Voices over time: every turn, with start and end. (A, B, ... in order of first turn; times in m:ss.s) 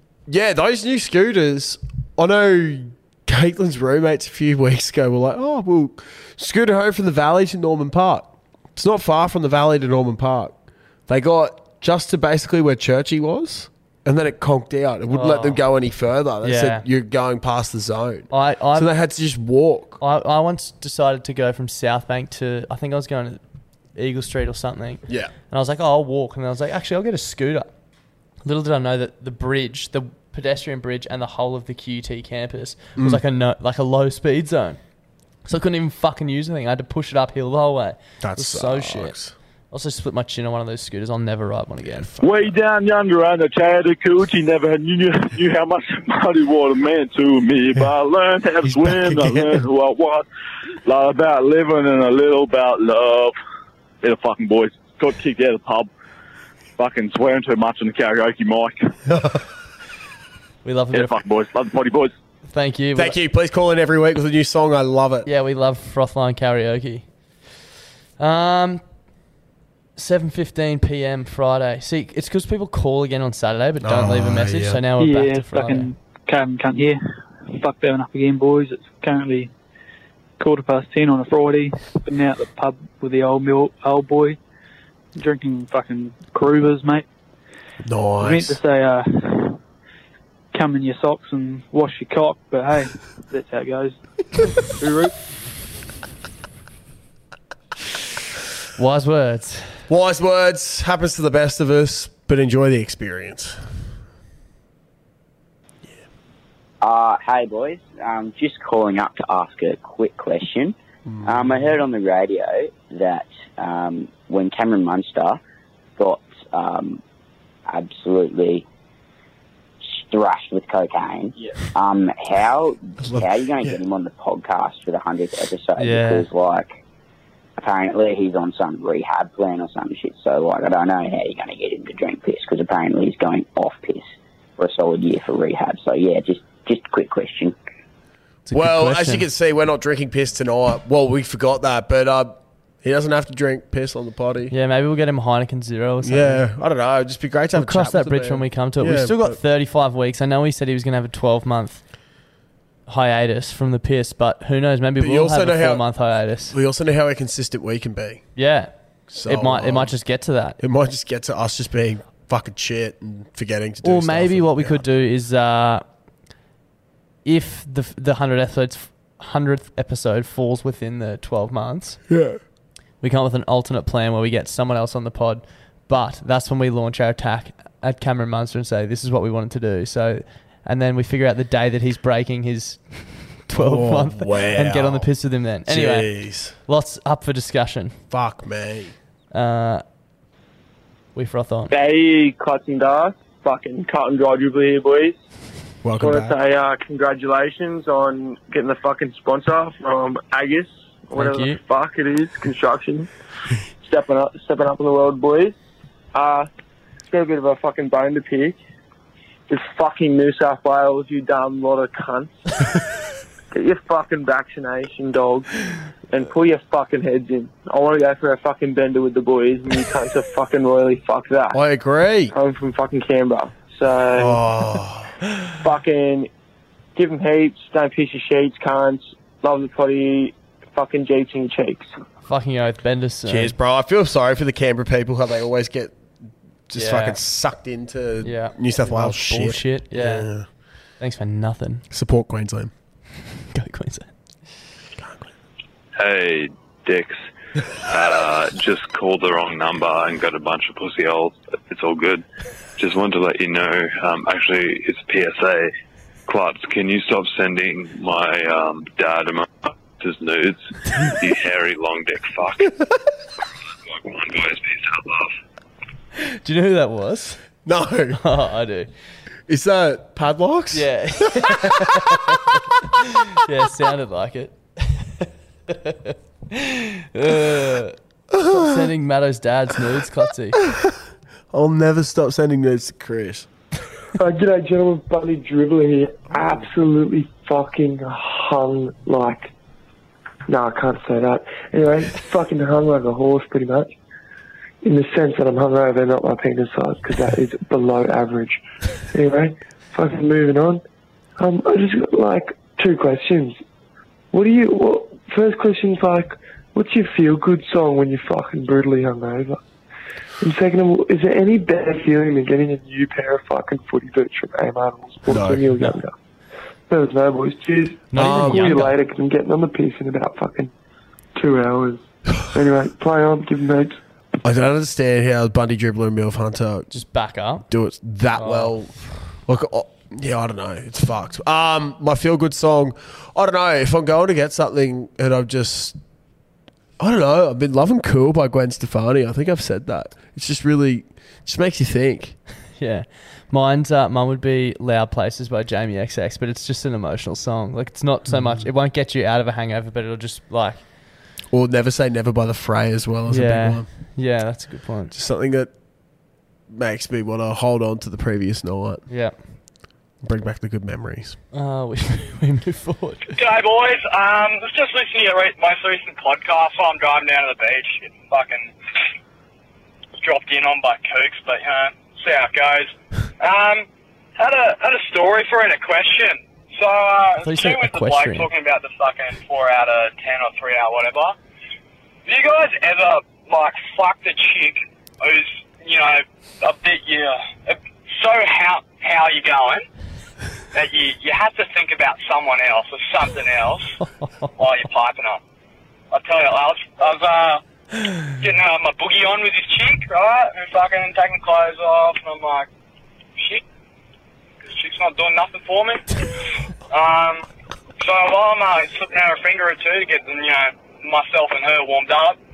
0:00.3-0:20.0 A
0:15.1-0:15.6 B
0:16.4-0:16.8 B
0:18.3-0:18.9 B
0:20.0-0:23.4 B
0:23.9-0:27.7 B
0:25.1-0:25.3 A
0:28.4-0:34.8 B
0:35.4-0:39.2 B
0:38.2-0:39.3 A
0:39.7-0:42.1 B
0:41.8-0:42.5 A
0:42.2-0:50.2 C
0:48.6-0:49.6 A
0:50.8-0:53.3 C
0:54.0-0:55.9 C
0:56.8-0:58.9 C
0:59.1-0:59.4 A
1:00.6-1:01.2 B
1:00.9-1:02.1 C
1:02.5-1:03.2 B
1:03.0-1:05.3 A
1:05.2-1:07.1 B
1:08.2-1:08.8 B
1:10.0-1:15.9 B
1:13.8-1:14.8 A
1:15.0-1:19.5 D
1:20.4-1:24.4 D
1:25.2-1:27.0 D
1:27.8-1:28.6 A
1:28.2-1:29.6 D
1:30.5-1:34.0 D
1:38.8-1:39.8 B
1:39.9-1:43.6 A
1:46.8-1:55.4 E
1:51.0-1:51.7 A
1:56.0-1:57.0 E
1:57.7-1:58.6 E
1:59.8-2:06.8 E
2:03.0-2:03.8 A
2:05.8-2:06.3 B
2:07.6-2:17.6 E
2:18.4-2:19.2 B
2:18.5-2:24.5 A
2:24.5-2:26.4 B
2:26.0-2:29.4 A
2:27.5-2:31.9 B
2:32.9-2:36.5 B
2:35.0-2:35.9 A
2:36.5-2:38.2 A
2:38.4-2:40.6 B
2:39.1-2:40.0 A
2:40.6-2:44.8 A
2:43.8-2:45.8 B
2:47.2-2:52.0 B
2:52.1-2:52.4 A
2:53.0-3:08.0 B
3:03.5-3:05.1 A
3:05.6-3:06.5 A
3:08.1-3:08.9 A
3:09.3-3:09.8 B
3:11.1-3:11.7 B
3:11.7-3:15.2 F
3:15.8-3:16.3 A
3:16.0-3:23.1 F
3:21.1-3:21.6 B
3:23.8-3:25.5 F
3:26.1-3:26.5 F
3:27.1-3:28.6 F
3:29.5-3:32.4 F
3:33.5-3:35.5 F
3:36.1-3:41.6 F
3:41.5-3:42.3 A
3:42.3-3:44.4 F
3:44.2-3:45.1 A
3:45.6-3:46.3 F
3:47.0-3:51.9 F
3:52.2-3:53.5 B
3:53.3-3:56.0 A
3:56.7-4:00.4 A
3:56.8-3:57.2 B
3:58.2-4:00.3 B
4:01.0-4:01.8 B
4:01.9-4:02.7 A
4:03.4-4:04.1 B
4:05.0-4:05.3 A
4:06.0-4:07.2 G
4:07.9-4:12.2 G
4:12.8-4:15.7 G
4:16.3-4:22.8 G
4:23.9-4:25.3 G
4:26.4-4:27.4 B
4:27.6-4:28.2 A
4:28.2-4:28.9 B
4:29.5-4:31.9 A
4:30.7-4:32.5 B
4:33.4-4:40.6 B
4:38.3-4:38.8 A
4:41.5-4:43.5 A
4:44.2-4:49.5 H
4:50.5-4:53.9 H
4:54.8-4:58.6 H
4:59.1-5:00.8 H
5:01.4-5:03.6 H
5:04.3-5:09.6 H
5:10.4-5:16.1 H
5:15.3-5:15.7 A
5:16.9-5:20.7 H
5:18.1-5:19.0 B
5:18.1-5:18.8 A
5:21.4-5:24.0 H
5:24.4-5:26.9 A
5:26.9-5:27.6 B
5:27.7-5:28.9 A
5:28.4-5:28.8 B
5:29.4-5:36.0 A
5:37.0-5:42.4 A
5:42.8-5:50.8 B
5:48.3-5:48.6 A
5:51.5-5:53.9 A
5:53.3-5:55.2 B
5:55.1-5:55.7 A
5:56.7-5:59.0 A
5:59.1-5:59.4 B
6:00.2-6:01.4 A
6:01.5-6:03.3 B
6:03.3-6:08.7 I
6:10.2-6:13.8 I
6:14.4-6:21.3 I
6:17.4-6:18.5 B
6:22.2-6:29.8 I
6:30.7-6:33.9 I
6:34.6-6:35.4 I
6:36.1-6:37.6 I
6:38.4-6:42.7 I
6:44.6-6:46.0 I
6:46.9-6:47.4 I
6:48.0-6:52.4 I